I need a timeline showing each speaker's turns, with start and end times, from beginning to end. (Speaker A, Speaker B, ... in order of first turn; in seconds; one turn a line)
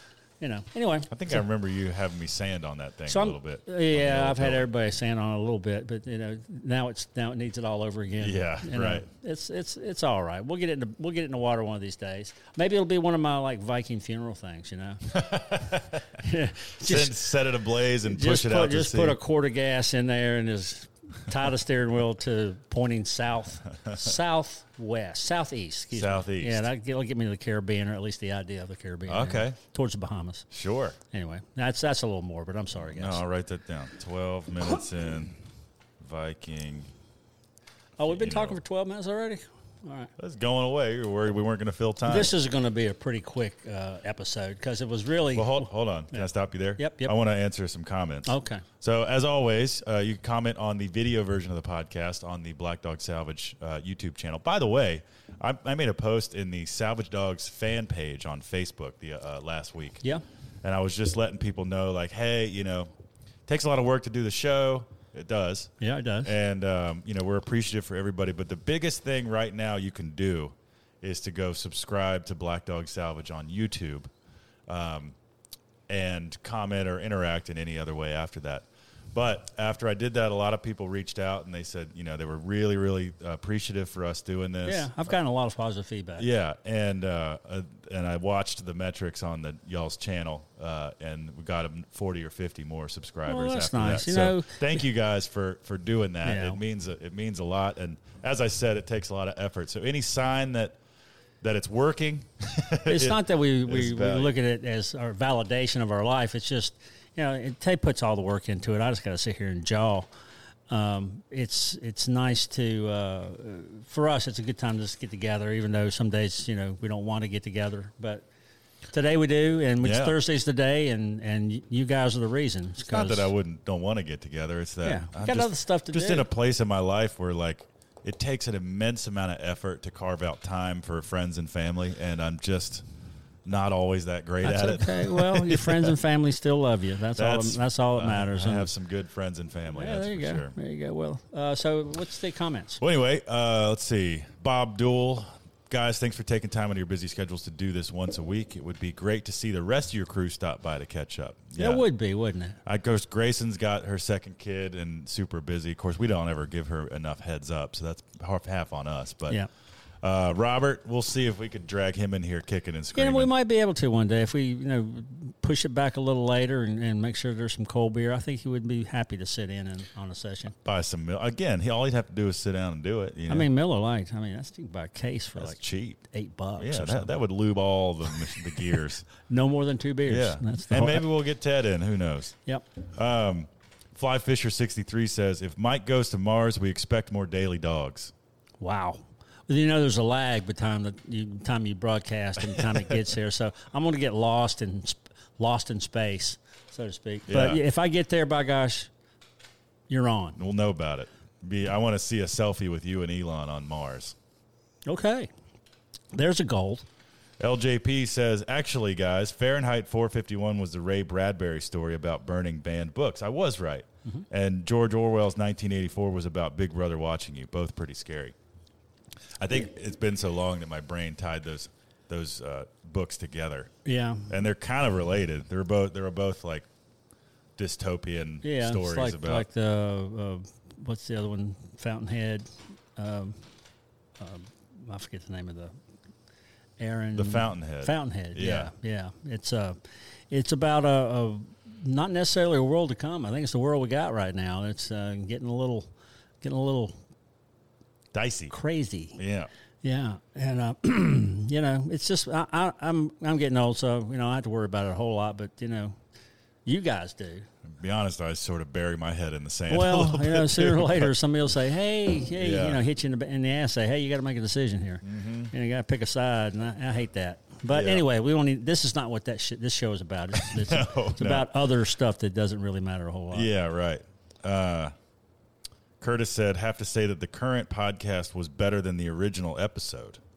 Speaker A: 0.4-1.4
Speaker B: 1.1-4.7
Speaker A: 3.1-15.1
Speaker B: 8.2-9.1
Speaker B: 15.1-16.0
Speaker A: 16.2-17.1
Speaker B: 16.8-19.2
Speaker A: 18.0-30.5
Speaker B: 25.9-26.7
Speaker B: 29.1-29.6
Speaker B: 30.5-31.0
Speaker A: 31.1-33.2
Speaker B: 32.8-35.4
Speaker B: 36.0-36.9
Speaker A: 38.0-40.1
Speaker B: 38.0-38.6
Speaker B: 40.2-42.3
Speaker A: 42.1-46.2
Speaker B: 45.3-60.0
Speaker A: 46.8-47.1
Speaker A: 48.2-48.6
Speaker B: 60.6-62.9
Speaker B: 63.5-65.7
Speaker A: 65.8-66.3
Speaker B: 66.2-74.1
Speaker B: 74.7-75.2
Speaker B: 75.9-84.9
Speaker A: 84.6-86.3
Speaker B: 86.2-100.8
Speaker A: 93.2-94.8
Speaker A: 96.2-96.6
Speaker B: 101.4-104.3
Speaker A: 102.8-110.1
Speaker A: 110.7-118.2
Speaker A: 118.9-123.3
Speaker B: 119.8-120.2
Speaker B: 122.8-132.8
Speaker A: 124.8-126.3
Speaker B: 133.4-135.9
Speaker A: 134.4-138.7
Speaker B: 137.2-140.5
Speaker A: 139.7-142.8
Speaker B: 142.8-151.8
Speaker A: 151.6-152.6
Speaker B: 152.6-159.4
Speaker B: 160.0-163.3
Speaker A: 162.9-170.5
Speaker B: 170.6-173.5
Speaker A: 173.3-177.1
Speaker B: 175.4-176.0
Speaker B: 176.6-179.1
Speaker A: 179.2-181.0
Speaker B: 180.1-182.3
Speaker B: 182.9-188.1
Speaker A: 188.6-198.9
Speaker B: 192.5-193.0
Speaker B: 197.3-197.6
Speaker A: 199.9-200.4
Speaker B: 200.4-204.1
Speaker A: 204.8-205.3
Speaker A: 206.1-206.8
Speaker B: 207.4-218.3
Speaker B: 219.4-223.7
Speaker A: 223.8-224.3
Speaker B: 224.3-226.7
Speaker B: 227.6-229.4
Speaker A: 228.4-233.4
Speaker A: 234.2-235.7
Speaker A: 236.8-239.8
Speaker B: 237.1-238.7
Speaker A: 240.3-245.9
Speaker A: 246.4-246.9
Speaker B: 248.1-248.5
Speaker A: 248.5-249.2
Speaker B: 249.2-249.5
Speaker A: 249.8-256.0
Speaker A: 256.6-257.5
Speaker B: 257.7-261.1
Speaker A: 259.7-273.5
Speaker B: 262.4-262.8
Speaker B: 265.0-265.5
Speaker B: 267.7-268.0
Speaker B: 270.3-271.5
Speaker B: 273.3-274.9
Speaker B: 276.0-280.2